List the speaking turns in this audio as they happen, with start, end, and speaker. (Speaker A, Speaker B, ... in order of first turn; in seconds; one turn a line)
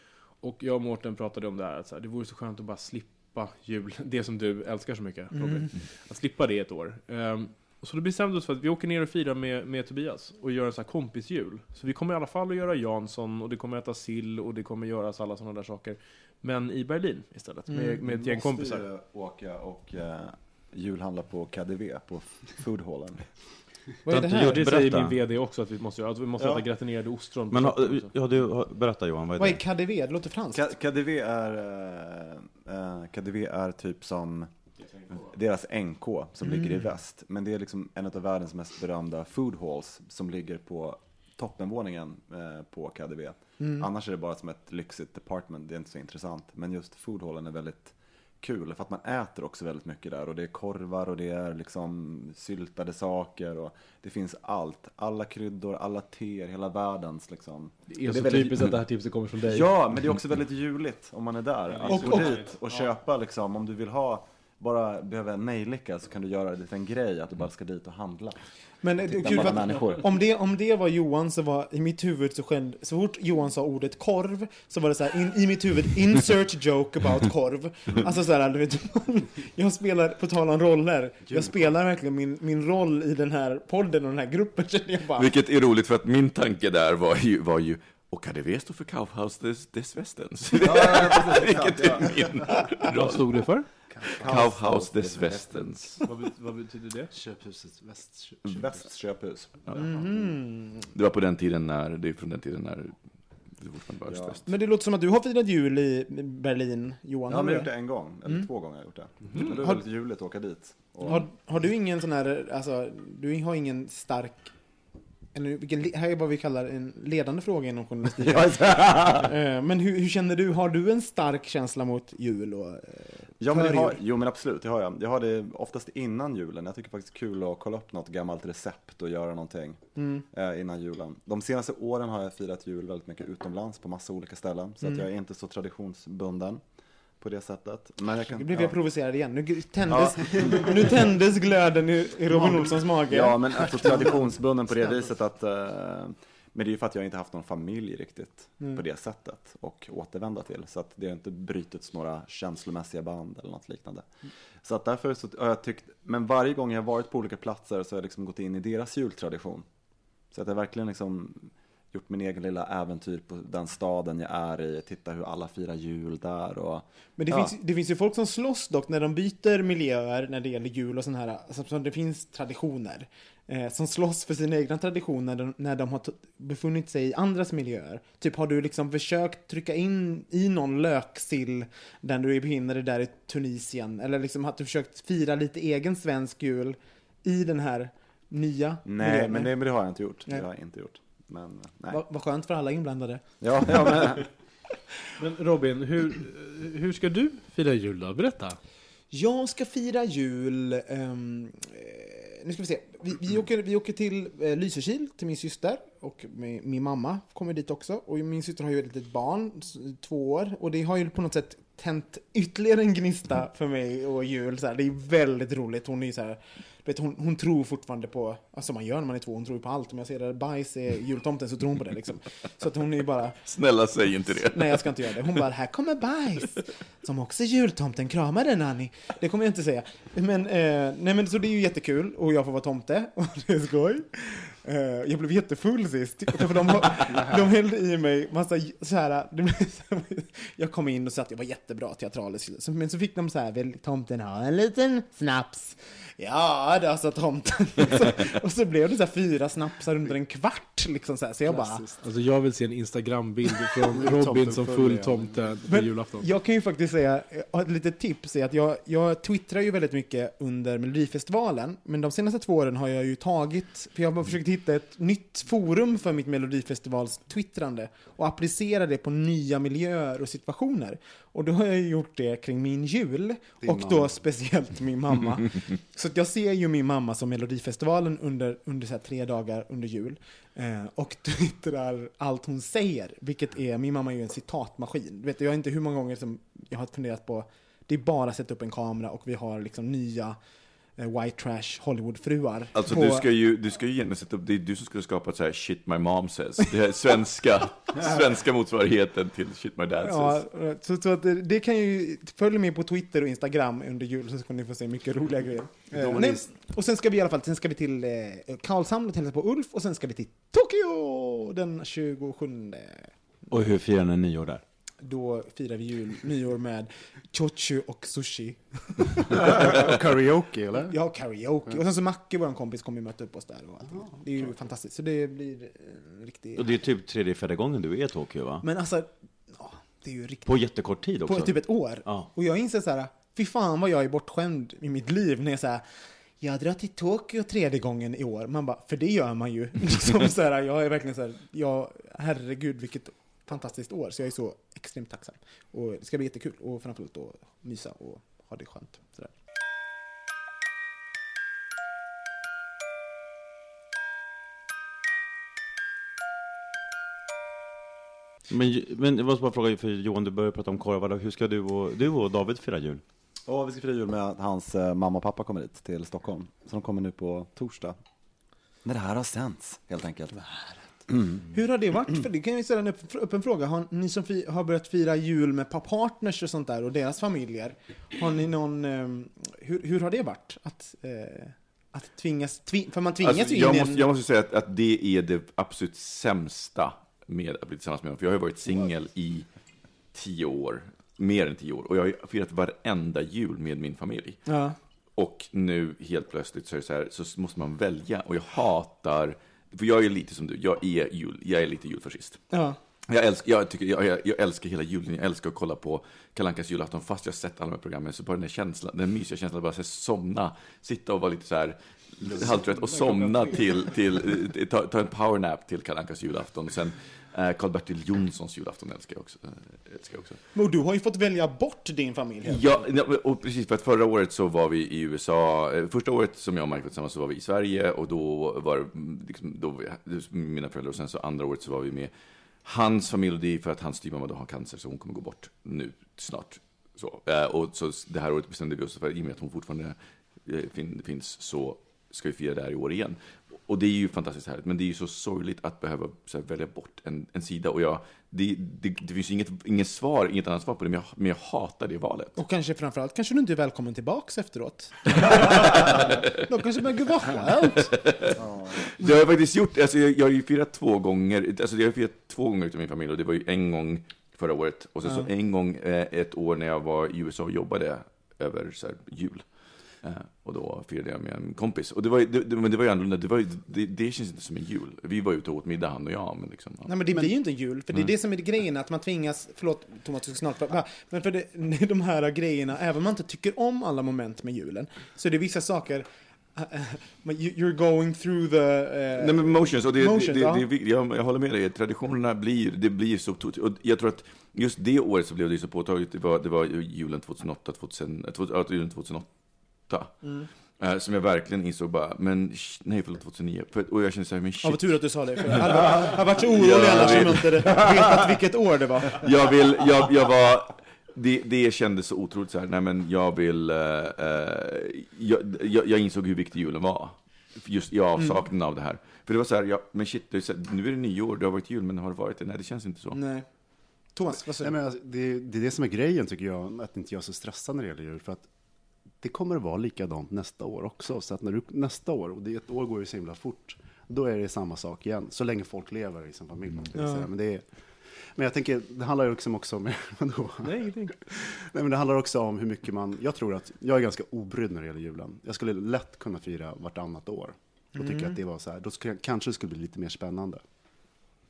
Speaker A: 0.3-18.9
Speaker B: 5.3-5.7
Speaker B: 17.7-18.0
Speaker C: 18.0-23.3
Speaker B: 24.1-24.6
Speaker D: 24.1-25.2
Speaker A: 24.3-28.1
Speaker D: 27.5-29.6
Speaker B: 29.4-30.7
Speaker C: 30.5-34.5
Speaker C: 35.2-58.7
Speaker A: 57.9-59.7
Speaker C: 59.4-68.4
Speaker A: 61.7-62.9
Speaker B: 61.9-62.4
Speaker B: 68.8-85.3
Speaker C: 69.0-70.0
Speaker A: 69.2-69.8
Speaker E: 81.3-81.7
Speaker F: 85.2-93.3
Speaker C: 90.6-92.4
Speaker A: 92.9-93.7
Speaker E: 93.9-94.2
Speaker C: 94.1-95.8
Speaker F: 94.2-95.9
Speaker A: 96.0-97.1
Speaker E: 97.1-98.8
Speaker C: 98.5-100.3
Speaker B: 99.8-100.8
Speaker F: 100.9-103.0
Speaker F: 103.6-104.5
Speaker C: 104.1-104.3
Speaker B: 104.5-107.7
Speaker C: 107.3-111.3
Speaker A: 109.3-109.7
Speaker B: 111.0-114.5
Speaker B: 115.3-124.0
Speaker C: 118.3-119.2
Speaker C: 123.4-129.8
Speaker B: 129.9-130.2
Speaker C: 130.3-136.6
Speaker C: 137.2-138.8
Speaker B: 138.3-144.3
Speaker C: 139.9-140.8
Speaker C: 142.3-154.1
Speaker C: 154.6-159.7
Speaker C: 160.3-167.5
Speaker B: 167.2-189.5
Speaker C: 188.8-192.0
Speaker B: 191.9-194.2
Speaker C: 193.4-194.3
Speaker A: 195.2-198.6
Speaker B: 199.1-223.4
Speaker F: 223.4-225.2
Speaker B: 224.3-251.8
Speaker E: 237.0-237.5
Speaker E: 251.4-252.1
Speaker A: 252.0-256.3
Speaker E: 253.9-255.7
Speaker B: 255.7-290.4
Speaker E: 273.6-274.2
Speaker B: 291.0-293.2
Speaker F: 292.7-300.4
Speaker B: 300.0-313.1
Speaker E: 305.9-306.5
Speaker D: 313.5-314.6
Speaker B: 315.0-320.0
Speaker E: 319.3-321.0
Speaker B: 320.9-326.7
Speaker E: 323.9-324.5
Speaker D: 326.6-328.6
Speaker B: 328.6-330.5
Speaker D: 330.4-332.3
Speaker B: 331.2-335.9
Speaker B: 336.4-349.3
Speaker D: 358.5-363.0
Speaker C: 363.5-367.9
Speaker C: 368.9-370.4
Speaker B: 371.4-384.0
Speaker F: 383.2-389.5
Speaker F: 390.1-394.4
Speaker B: 394.5-394.8
Speaker F: 395.1-402.4
Speaker B: 402.5-402.8
Speaker F: 403.1-420.4
Speaker E: 412.3-412.6
Speaker A: 412.6-413.6
Speaker B: 420.5-422.8
Speaker F: 422.4-432.1
Speaker F: 432.6-452.4
Speaker B: 452.4-454.9
Speaker F: 455.2-456.2
Speaker B: 455.5-457.9
Speaker F: 457.9-469.5
Speaker C: 458.4-458.8
Speaker F: 470.0-476.9
Speaker B: 476.9-490.6
Speaker F: 489.1-499.3
Speaker F: 499.9-508.4
Speaker B: 500.2-500.5
Speaker B: 504.6-509.2
Speaker F: 509.1-523.2
Speaker B: 523.1-523.5
Speaker B: 524.1-524.7
Speaker E: 524.6-528.5
Speaker E: 529.2-537.7
Speaker B: 537.0-537.2
Speaker E: 538.2-550.6
Speaker A: 540.6-541.1
Speaker B: 548.0-548.4